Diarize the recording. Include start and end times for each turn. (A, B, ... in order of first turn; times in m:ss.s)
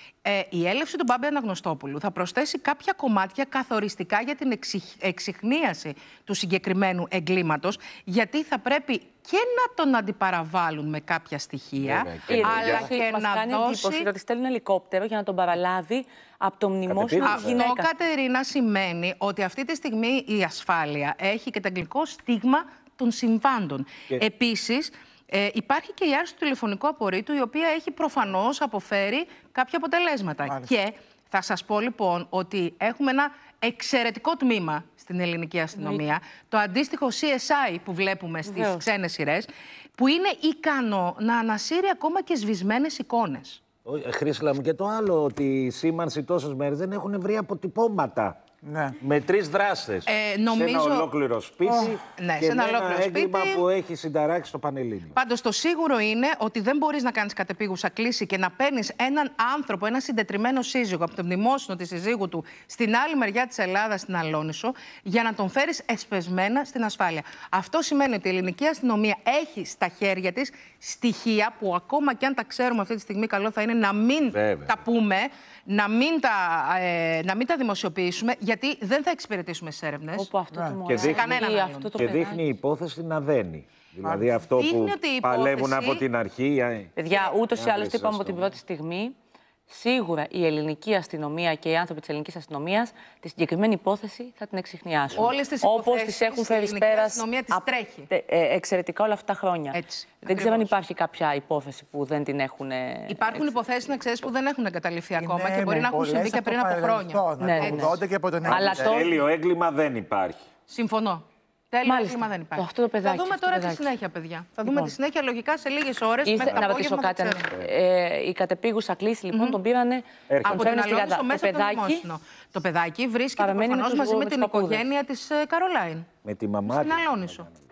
0:00.2-0:14.1 A
0:11.8-0:12.9 B
0:12.3-0:17.9 C
0:16.9-0:17.6 B
0:17.2-0:43.6 A
0:35.8-0:36.0 C
0:38.5-0:38.8 C
0:43.8-0:48.4 B
0:48.7-0:49.0 D
0:49.0-0:55.2 B
0:50.1-0:51.1 A
0:52.1-0:53.6 A
0:55.1-1:20.3 A
1:14.3-1:14.7 B
1:20.2-1:22.5 C
1:20.5-1:20.8 D
1:20.9-1:21.4 B
1:21.0-1:21.9 A
1:22.0-1:26.9 B
1:24.0-1:24.3 D
1:24.6-1:26.0 A
1:27.0-1:29.2 C
1:27.6-1:28.6 B
1:29.7-1:43.5 C
1:35.1-1:38.1 A
1:39.7-1:40.8 A
1:43.1-1:48.0 A
1:45.2-1:49.0 D
1:47.4-1:49.2 C
1:48.5-1:50.4 B
1:50.7-1:57.5 A
1:51.8-1:53.9 C
1:54.7-1:54.9 C
1:56.2-2:02.0 C
1:59.3-1:59.6 A
2:00.3-2:00.7 B
2:00.5-2:06.1 A
2:03.4-2:04.9 C
2:06.2-2:07.2 B
2:06.7-2:07.5 A